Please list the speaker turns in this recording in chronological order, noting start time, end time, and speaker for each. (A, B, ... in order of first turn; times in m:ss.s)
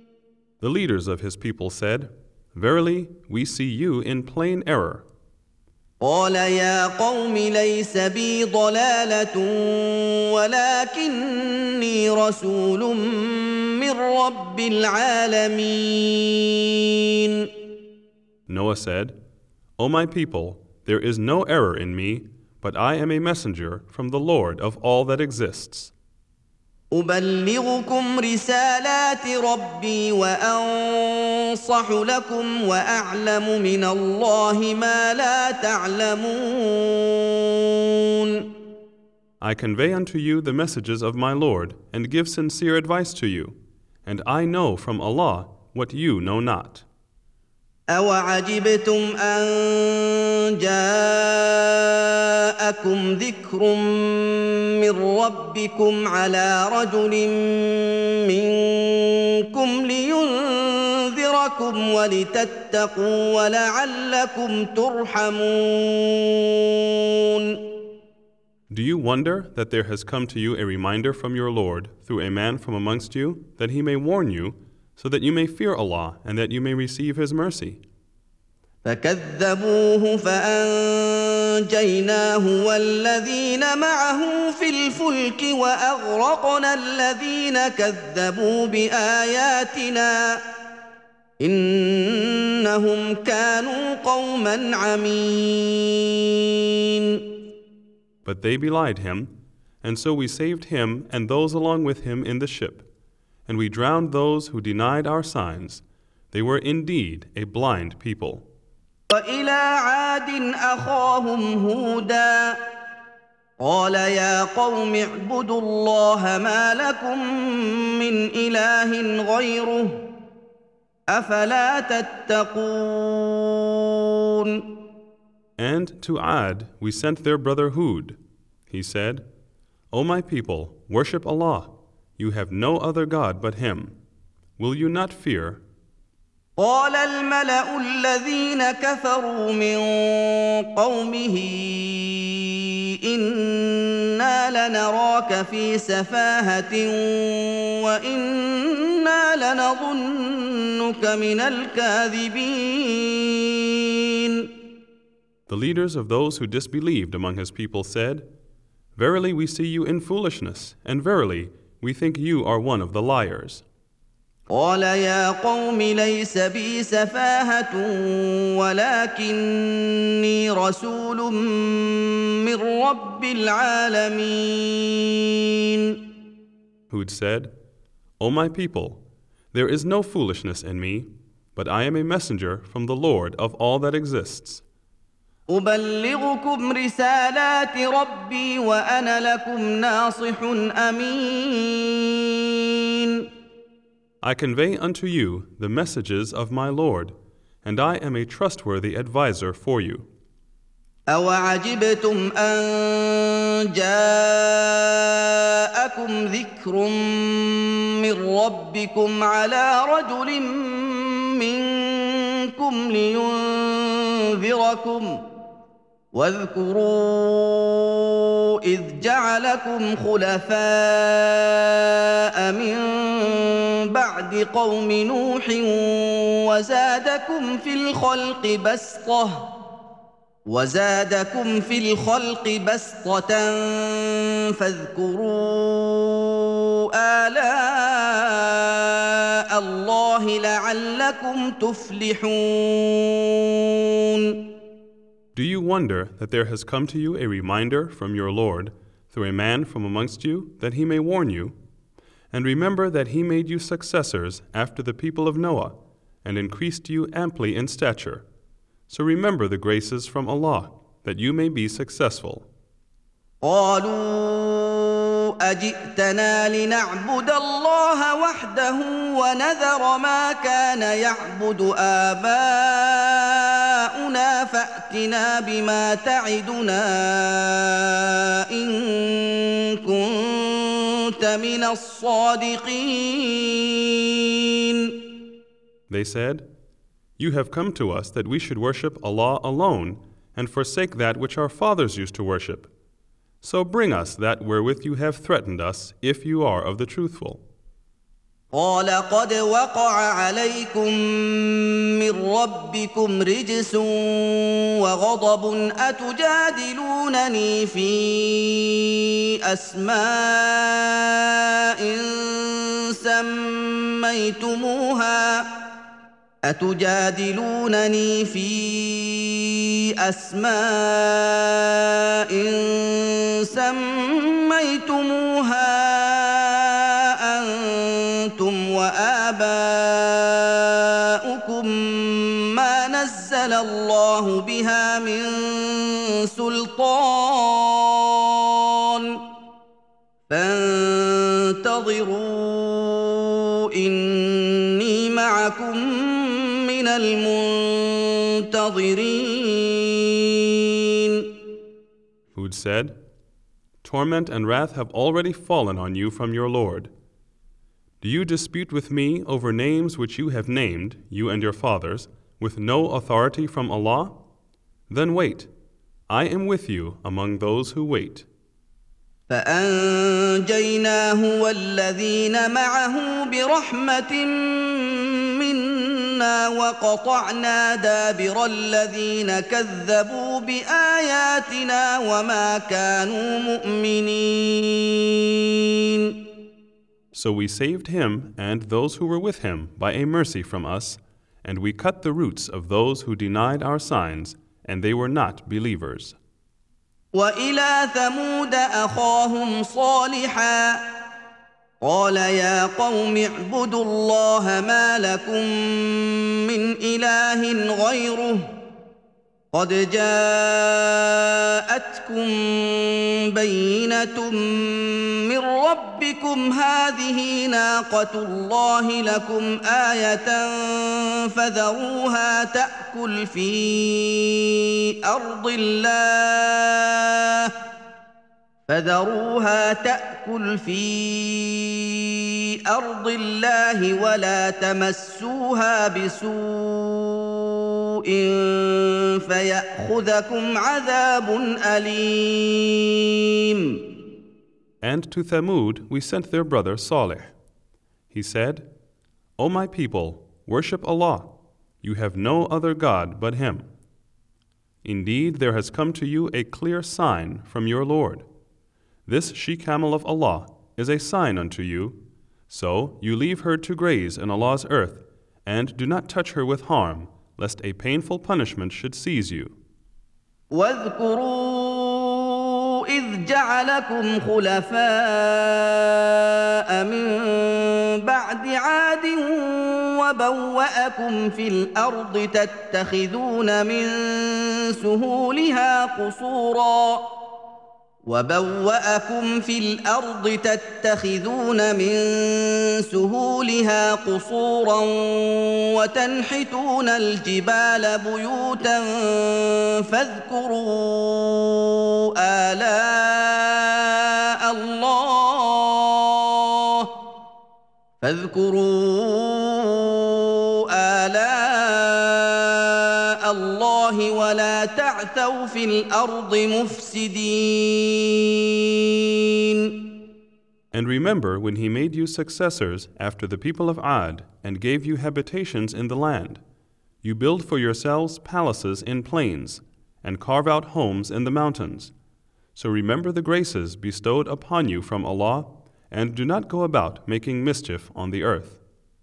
0:00.6-0:05.0 A
0:06.0-0:17.5 B
0:18.5-0:19.2 A
0:19.8-0:25.9 A
0:26.9-0:38.5 B
0:39.4-0:46.8 A
0:47.9-1:07.7 B
1:08.7-1:17.8 A
1:18.8-1:30.4 B
1:31.4-1:37.2 B
1:38.2-1:42.8 A
1:43.5-1:48.4 A
1:49.1-1:52.6 B
1:53.6-2:00.0 B
2:01.1-2:04.7 B
2:05.6-2:08.2 A
2:08.7-2:09.2 A
2:09.9-2:14.0 A
2:14.6-2:15.6 A
2:16.6-2:34.5 B
2:35.5-2:38.3 A
2:39.0-2:43.6 A
2:44.5-2:56.0 B
2:56.9-2:57.5 A
2:58.2-2:59.0 A
2:59.5-3:04.6 A
3:05.5-3:13.2 B
3:14.2-3:20.1 A
3:21.1-3:35.2 B
3:36.1-3:49.5 B
3:50.4-4:04.5 B
4:05.3-4:11.6 A
4:12.3-4:18.2 A
4:18.9-4:22.5 A
4:23.4-4:45.0 B
4:45.9-4:46.5 A
4:47.2-4:52.7 A
4:53.4-4:57.4 A
4:58.5-5:15.5 B
5:16.4-5:39.2 B
5:40.3-5:51.3 B
5:52.3-5:53.0 A
5:53.8-5:56.9 A
5:58.0-6:04.1 A
6:04.9-6:05.5 A
6:06.1-6:08.2 A
6:09.3-6:26.2 B
6:27.1-6:36.2 A
6:37.1-6:40.8 B
6:41.8-6:48.4 B
6:49.5-7:07.5 B
7:08.7-7:23.8 B
7:24.8-7:27.3 A
7:28.1-7:28.7 A
7:29.4-7:33.7 A
7:34.8-7:38.2 A
7:39.0-7:49.6 A
7:50.5-8:07.1 B
8:08.0-8:26.9 B
8:28.0-8:39.9 B
8:40.7-8:46.4 A
8:47.0-8:51.9 A
8:52.5-8:58.6 A